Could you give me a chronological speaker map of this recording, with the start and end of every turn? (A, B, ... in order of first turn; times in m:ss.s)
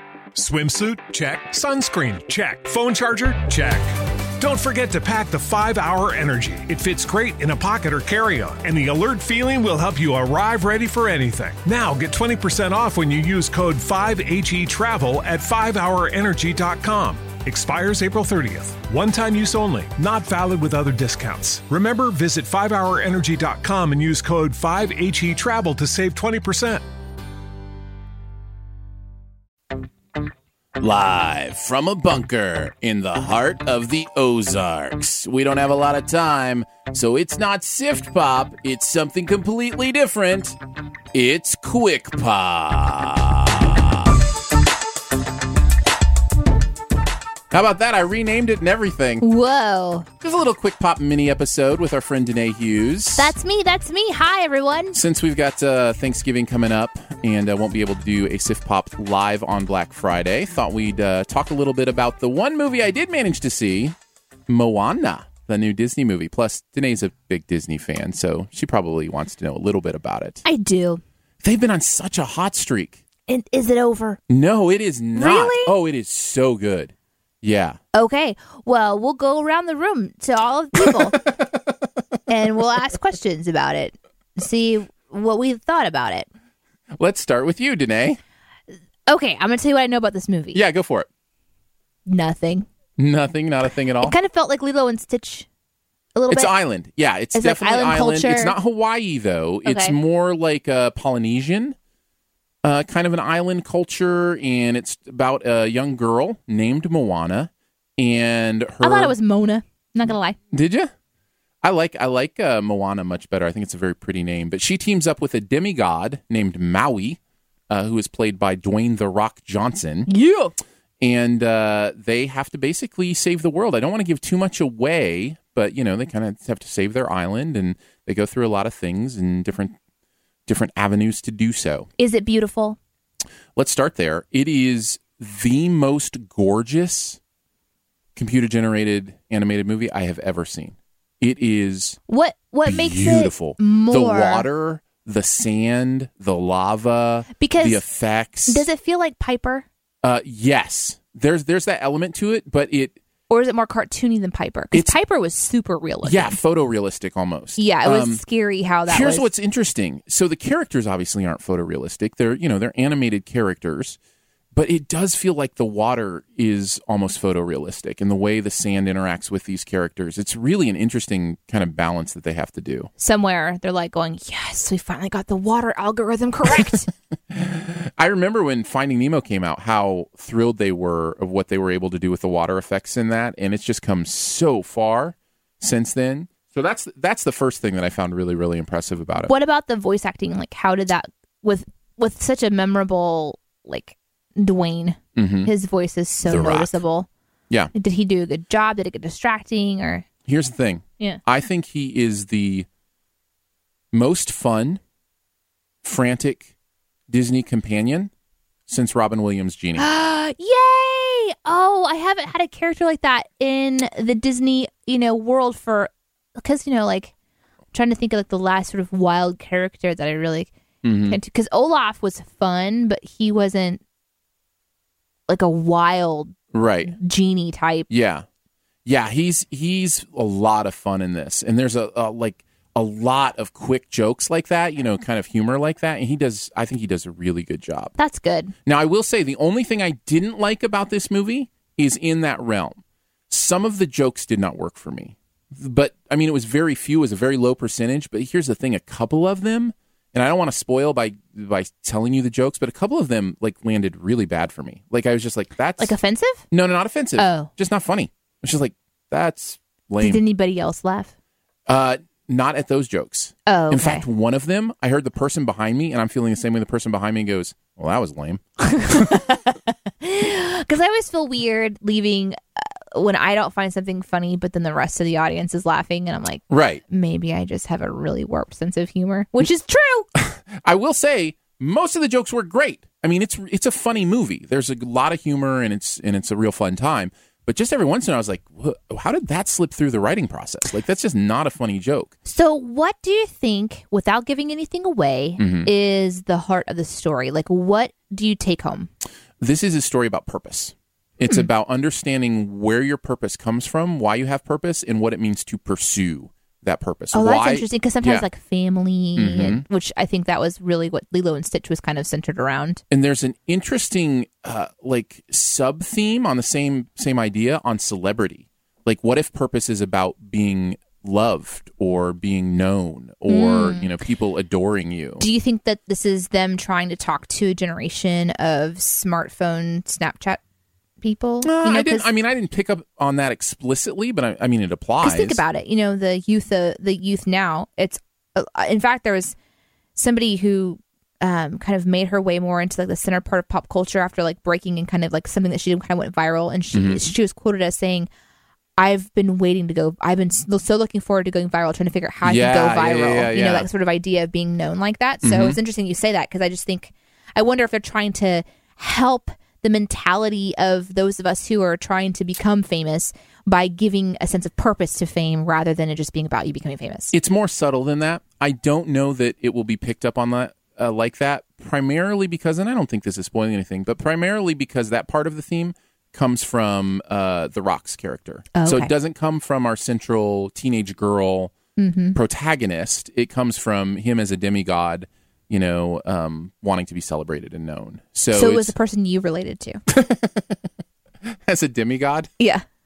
0:00.3-0:03.9 A
0:04.4-0:26.8 A
0:30.8-0:40.6 B
0:41.1-0:43.8 B
0:47.5-0:49.3 B
0:49.2-0:50.1 C
0:50.2-0:53.3 B
0:53.2-0:55.0 C
0:54.9-1:03.9 B
1:04.5-1:10.4 B
1:10.4-1:11.0 C
1:11.4-1:13.0 B
1:13.3-1:14.2 C
1:14.3-1:17.8 B
1:15.1-1:15.7 C
1:17.9-1:21.3 C
1:20.8-1:21.4 B
1:22.3-1:26.3 C
1:27.0-1:28.2 B
1:29.1-1:30.6 C
1:30.5-1:31.1 B
1:32.1-1:32.6 C
1:33.0-1:34.2 B
1:34.0-1:35.4 C
1:36.1-1:36.5 C
1:36.3-1:41.7 B
1:37.3-1:38.6 C
1:39.6-1:40.0 C
1:42.6-1:49.1 B
1:48.8-1:50.4 C
1:50.5-1:50.9 B
1:51.6-1:57.2 B
1:57.7-2:00.1 B
2:00.1-2:00.5 C
2:01.0-2:09.7 B
2:10.5-2:11.9 B
2:12.0-2:12.8 C
2:13.6-2:17.2 B
2:18.2-2:22.0 B
2:22.1-2:24.5 C
2:22.6-2:28.7 B
2:27.4-2:27.8 C
2:28.4-2:29.6 C
2:30.0-2:33.0 B
2:33.3-2:36.4 C
2:34.7-2:35.0 B
2:36.0-2:38.2 B
2:37.6-2:39.3 C
2:38.9-2:44.0 B
2:44.5-2:52.9 B
2:53.0-2:56.9 C
2:57.3-3:09.3 B
3:09.2-3:17.1 C
3:15.2-3:15.5 B
3:16.2-3:16.8 B
3:17.7-3:20.0 C
3:20.2-3:22.6 B
3:23.9-3:24.8 B
3:25.8-3:26.5 B
3:27.1-3:28.1 B
3:28.7-3:29.9 B
3:29.8-3:37.1 C
3:37.7-3:40.5 C
3:40.8-3:41.2 B
3:41.1-3:43.8 C
3:45.3-3:46.3 C
3:46.5-3:46.9 B
3:46.8-3:47.9 C
3:47.9-3:48.2 B
3:48.8-3:57.9 B
3:58.0-3:58.5 C
3:58.6-4:15.9 B
4:15.8-4:16.4 C
4:16.5-4:20.2 B
4:17.2-4:17.5 C
4:20.0-4:21.1 C
4:21.7-4:29.2 B
4:23.5-4:24.0 C
4:28.6-4:40.1 C
4:36.5-4:36.8 B
4:40.2-4:52.1 B
4:52.2-4:58.9 C
4:55.4-4:55.7 B
4:59.4-5:08.2 B
5:07.1-5:12.8 C
5:09.1-5:09.6 B
5:12.9-5:25.2 B
5:23.3-5:23.9 C
5:25.2-5:30.4 C
5:31.0-5:32.0 C
5:31.4-5:35.4 B
5:35.0-5:39.3 C
5:40.0-5:48.1 C
5:46.7-5:47.1 B
5:48.8-6:07.1 C
5:52.2-5:53.7 B
5:55.2-5:55.6 B
6:07.1-6:21.6 B
6:18.6-6:18.9 C
6:21.8-6:22.2 C
6:22.1-6:28.7 B
6:28.3-6:29.8 C
6:29.9-6:30.6 B
6:31.3-6:32.3 B
6:32.4-6:32.6 C